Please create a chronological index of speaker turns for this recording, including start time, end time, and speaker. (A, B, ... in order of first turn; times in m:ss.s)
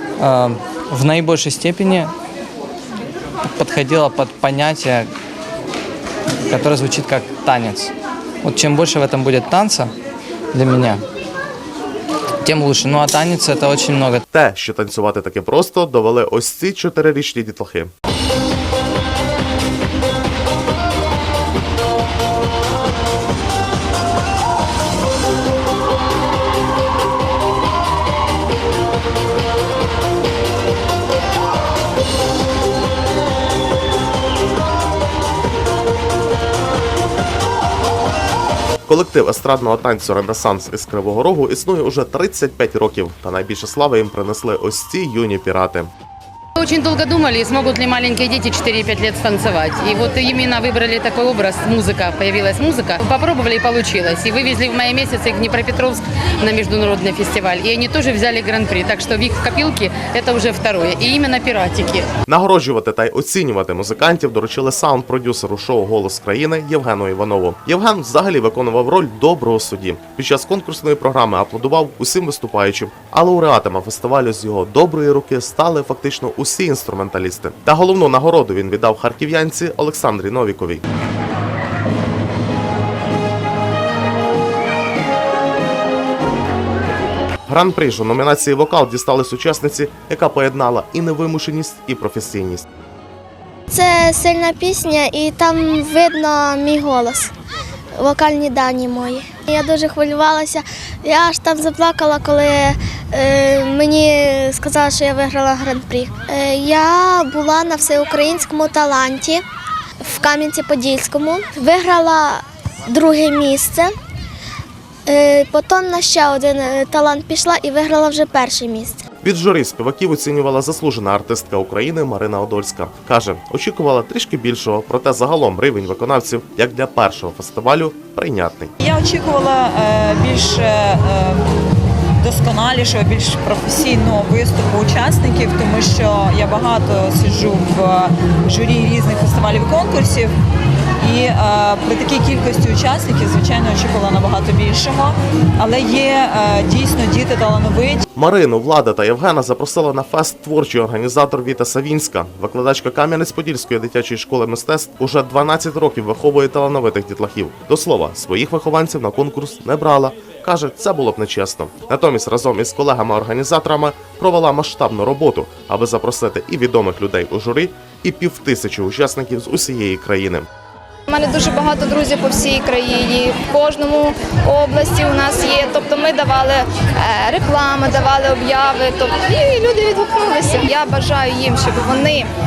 0:00.2-0:02.1 A
0:03.5-0:05.1 A
0:06.5-0:09.9 A
0:10.5-0:11.0 A
0:12.4-0:14.2 A
0:14.3-0:17.9 B
0:38.9-0:45.9 B
0:46.6-1:02.1 C
1:02.3-1:20.8 B
1:27.5-1:32.6 B
1:33.7-1:37.3 D
1:38.0-1:49.4 D
1:50.0-1:53.9 D
1:55.1-1:59.0 D
1:59.2-2:08.7 B
2:08.8-2:11.4 E
2:12.2-2:20.3 E
2:21.0-2:28.0 E
2:28.2-2:50.5 B
2:51.1-3:02.3 F